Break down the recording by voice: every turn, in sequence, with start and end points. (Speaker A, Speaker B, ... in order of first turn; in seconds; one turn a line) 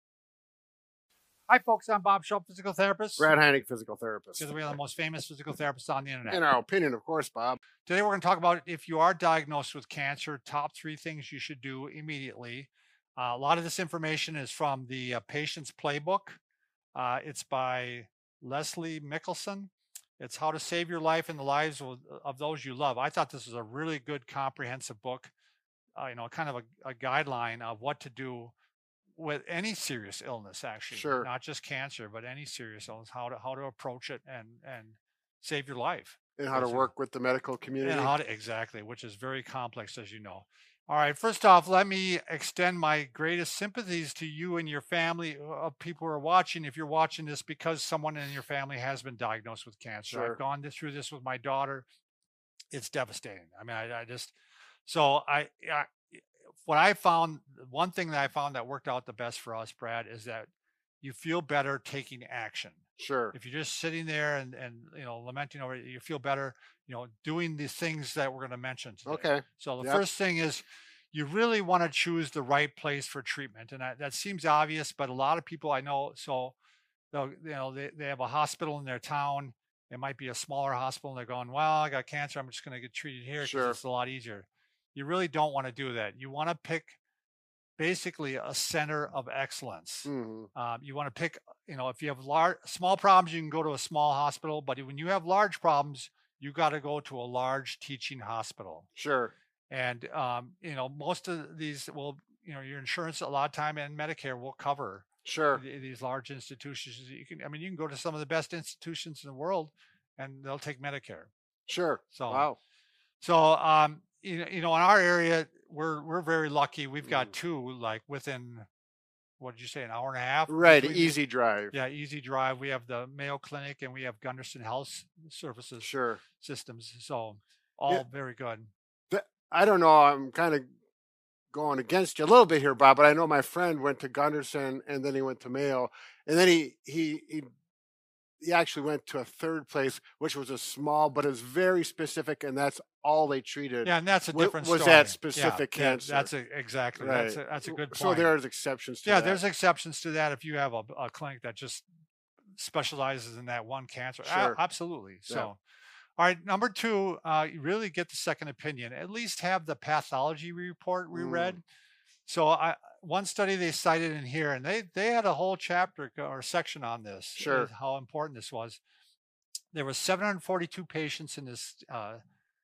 Speaker A: 1.5-3.3
Speaker B: 3.2-4.7
Speaker A: 4.4-6.4
Speaker B: 6.3-7.6
Speaker A: 7.8-16.4
Speaker A: 16.9-25.3
Speaker A: 26.0-28.5
Speaker A: 29.1-36.9
Speaker B: 30.9-31.3
Speaker B: 36.4-38.1
Speaker A: 37.8-51.9
Speaker B: 50.1-50.4
Speaker A: 52.7-54.3
Speaker A: 54.9-60.5
Speaker A: 61.0-62.8
Speaker B: 63.0-63.4
Speaker A: 63.3-76.6
Speaker B: 69.1-70.0
Speaker A: 77.1-87.0
Speaker B: 83.4-83.8
Speaker A: 87.8-98.9
Speaker B: 90.1-90.5
Speaker B: 99.0-99.3
Speaker A: 99.7-111.3
Speaker B: 105.2-105.6
Speaker B: 111.7-112.6
Speaker A: 112.1-112.5
Speaker A: 113.2-118.7
Speaker B: 117.0-117.3
Speaker A: 119.4-121.2
Speaker B: 120.5-121.8
Speaker A: 121.7-128.7
Speaker B: 125.8-126.2
Speaker B: 129.1-130.7
Speaker B: 131.5-137.5
Speaker B: 138.4-146.3
Speaker A: 143.8-148.3
Speaker B: 147.0-149.4
Speaker A: 149.0-151.9
Speaker A: 152.6-155.6
Speaker B: 154.2-154.6
Speaker A: 156.2-161.6
Speaker B: 161.1-161.6
Speaker A: 162.3-168.8
Speaker B: 167.4-167.7
Speaker A: 169.7-172.2